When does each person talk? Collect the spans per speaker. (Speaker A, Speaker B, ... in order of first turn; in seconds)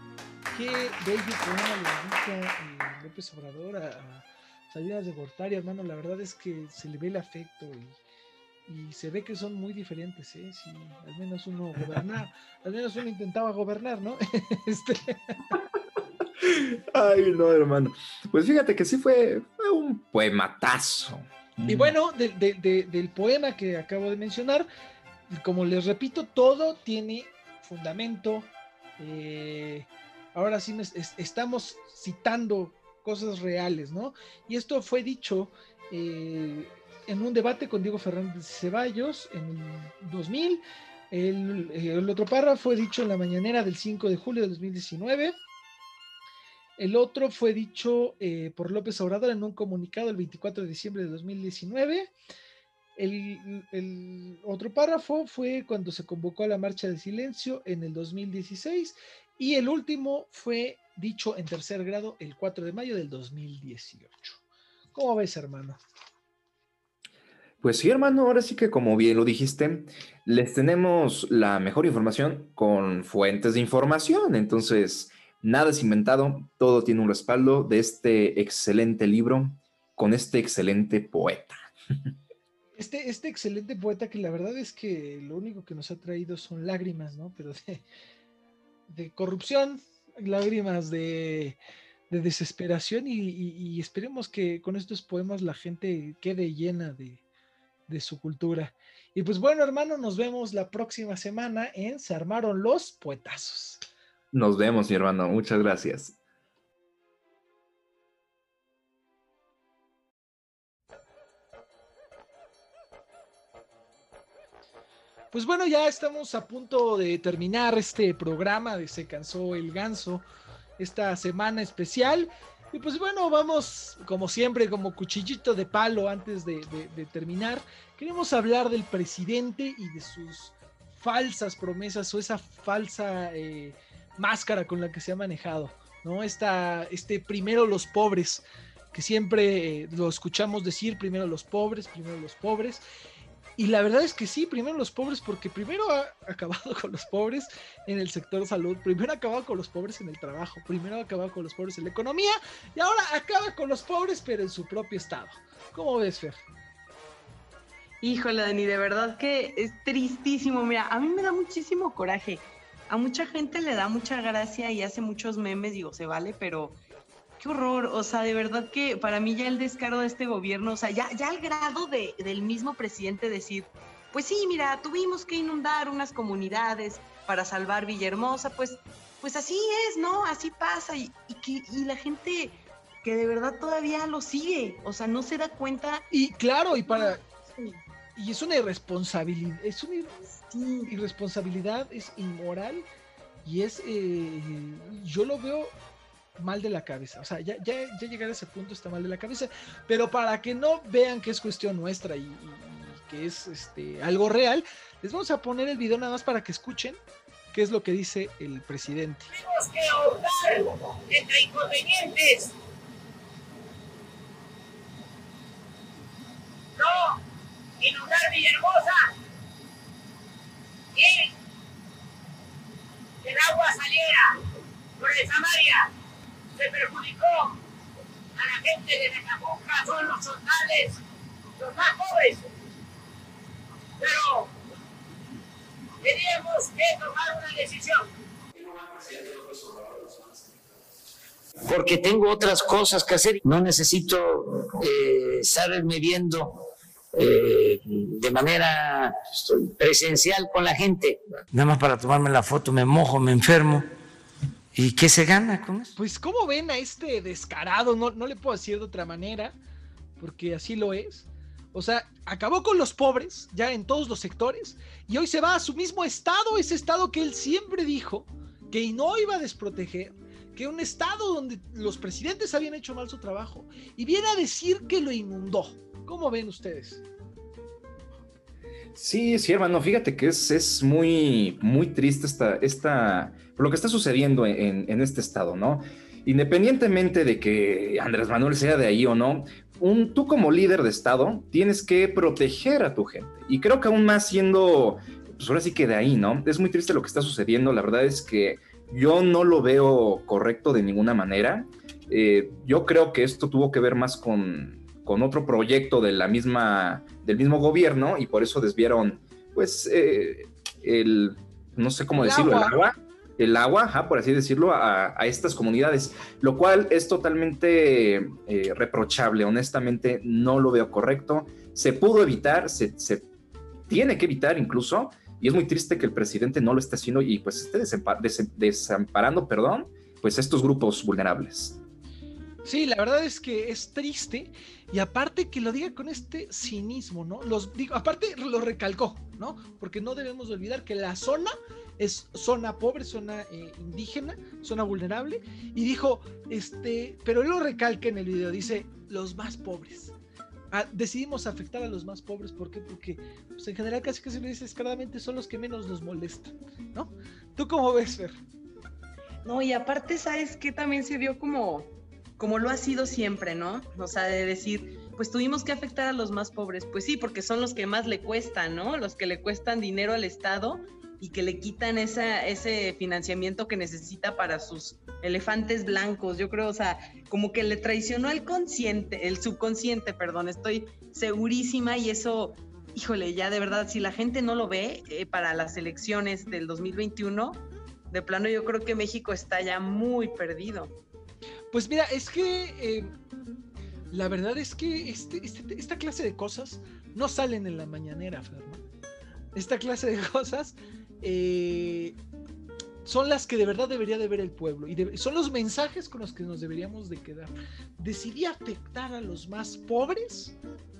Speaker A: 0.5-8.0, 8.7-15.5, 21.6-24.7, 25.3-45.3, 46.8-52.1, 53.0-64.4, 64.9-65.8, 82.8-87.8, 88.9-91.6, 92.1-97.2, 97.9-103.8, 115.3-120.2, 120.8-142.8, 143.6-156.4, 186.1-187.2, 188.2-190.2, 190.9-192.8, 193.4-195.7, 196.4-207.0, 207.5-209.3, 255.9-259.6, 260.2-277.0, 312.1-312.8, 332.6-350.1, 350.7-358.4, 391.7-393.1, 394.1-398.8, 399.5-402.2, 403.0-410.6
Speaker B: 16.4-21.9, 67.6-81.5, 104.3-106.2, 278.9-323.3, 323.9-331.8
Speaker C: 158.0-166.8, 167.4-186.0, 186.9-187.8, 190.5-190.9, 359.4-390.9
Speaker D: 209.3-212.5, 216.8-217.2, 217.8-219.1, 220.9-221.3, 223.2-224.3, 225.0-225.9, 226.6-227.6, 228.3-231.0, 231.6-232.5, 234.0-234.5, 236.0-238.1
Speaker E: 241.7-246.6, 247.1-253.8, 254.7-255.9